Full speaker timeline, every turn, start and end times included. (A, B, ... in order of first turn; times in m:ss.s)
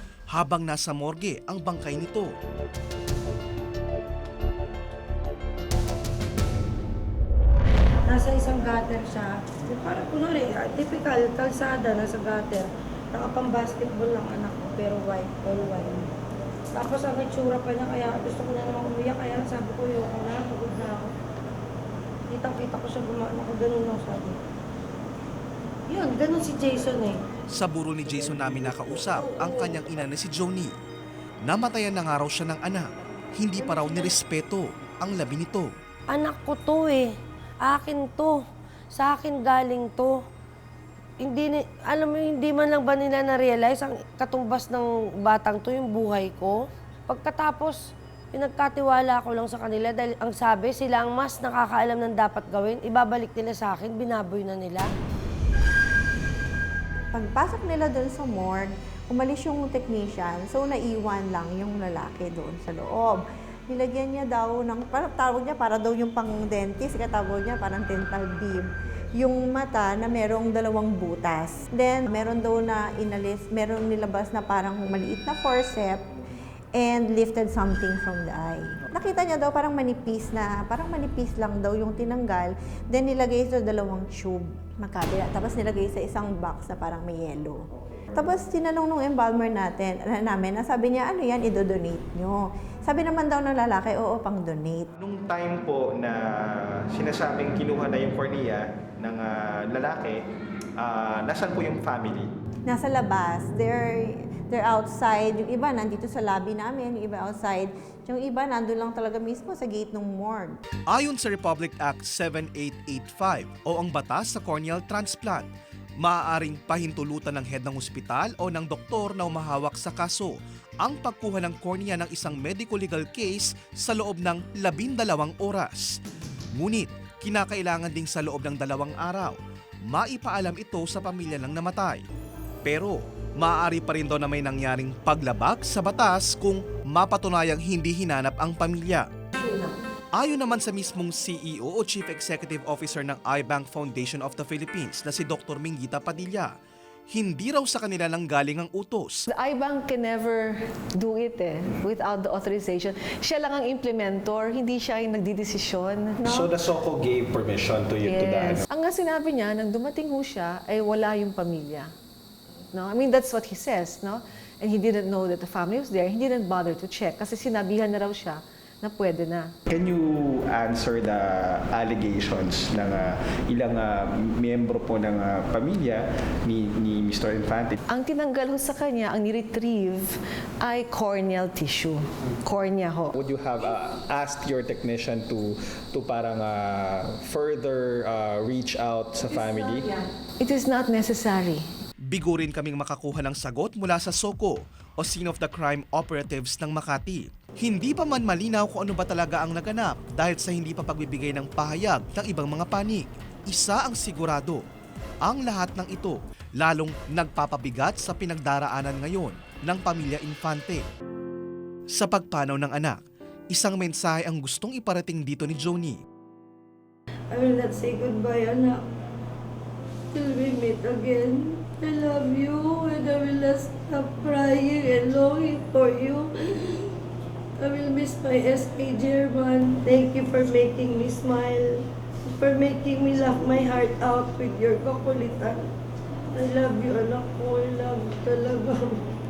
0:00.3-0:02.3 A
0:08.0-0:16.1 B
0:16.7-0:21.1 B
0:22.3-0:24.4 B
0:25.9-0:27.2 B
0:27.5-0:30.8 A
0:29.3-0:29.7 B
0:31.4-0:35.7 A
0:36.1-0:37.1 B
0:37.6-0:38.4 B
0:38.9-0:40.2 B
0:41.2-0:47.8 B
0:48.3-0:54.9 B
0:57.1-1:16.0 C
1:16.7-1:34.9 C
1:35.0-1:40.2 D
1:40.8-1:42.3 D
1:42.7-1:50.6 C
1:50.9-1:55.5 A
1:56.0-2:06.0 A
2:06.6-2:09.4 A
2:09.9-2:12.0 A
2:12.6-2:19.1 A
2:19.3-2:19.7 E
2:20.2-2:26.5 A
2:27.1-2:29.2 A
2:29.3-2:36.2 E
2:36.2-2:38.6 D
2:38.0-2:41.9 E
2:42.7-2:49.5 E
2:49.7-2:57.8 D
2:57.9-3:03.1 E
3:03.1-3:09.9 D
3:09.3-3:11.6 E
3:12.1-3:24.6 A
3:25.2-3:30.8 A
3:31.9-3:33.0 A
3:33.5-3:36.0 A
3:37.3-3:38.9 B
3:40.1-3:46.9 B
3:47.6-3:55.7 B
3:56.3-3:59.0 B